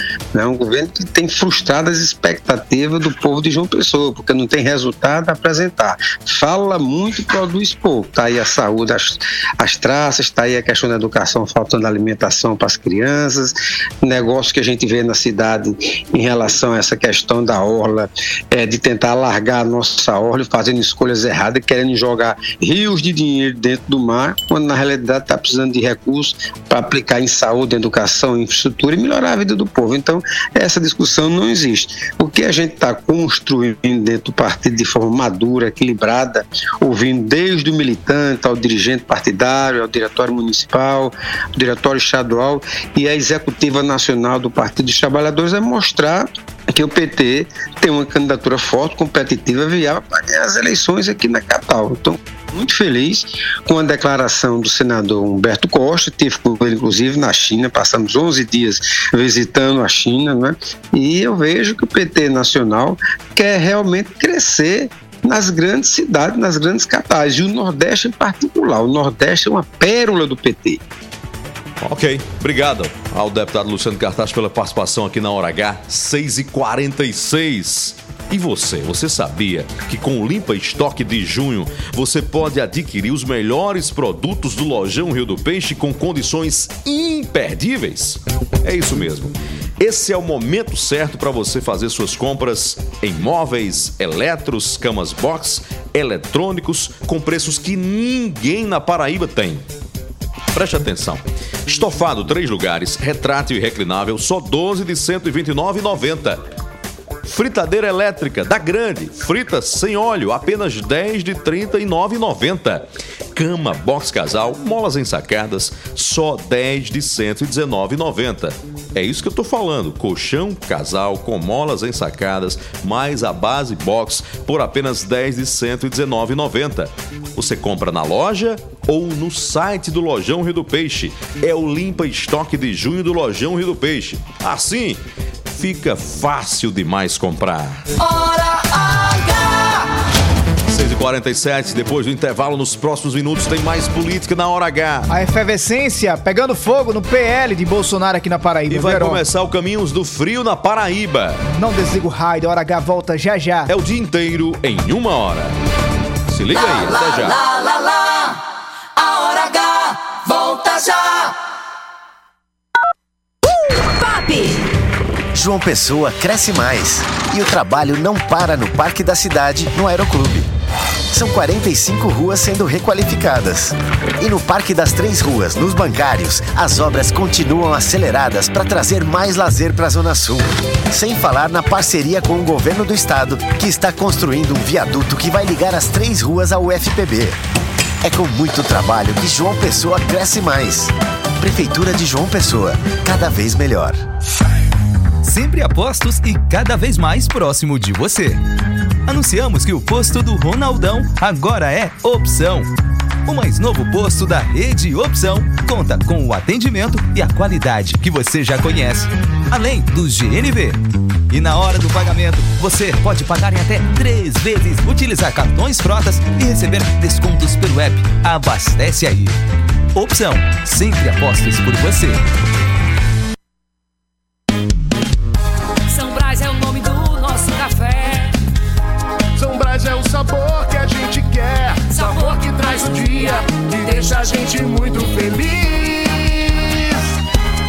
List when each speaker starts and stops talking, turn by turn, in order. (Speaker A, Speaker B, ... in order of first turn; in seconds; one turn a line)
Speaker A: 0.3-70.8
Speaker B: 71.8-99.7
Speaker B: 100.5-106.4
Speaker B: 107.3-135.0
Speaker B: 135.5-137.8
Speaker C: 138.0-139.9
Speaker B: 140.7-145.1
Speaker D: 145.1-149.2
Speaker B: 148.7-151.4
Speaker D: 151.5-153.7
Speaker B: 153.7-155.6
Speaker B: 156.3-157.4
Speaker C: 156.6-158.4
Speaker C: 159.0-161.3
Speaker C: 163.8-164.6
Speaker E: 165.3-170.5
Speaker E: 171.1-187.4
Speaker E: 188.0-194.0
Speaker F: 195.2-198.4
Speaker F: 199.1-202.7
Speaker F: 203.3-210.8
Speaker F: 211.3-219.4
Speaker F: 219.9-222.2
Speaker G: 226.2-228.3
Speaker G: 229.4-237.1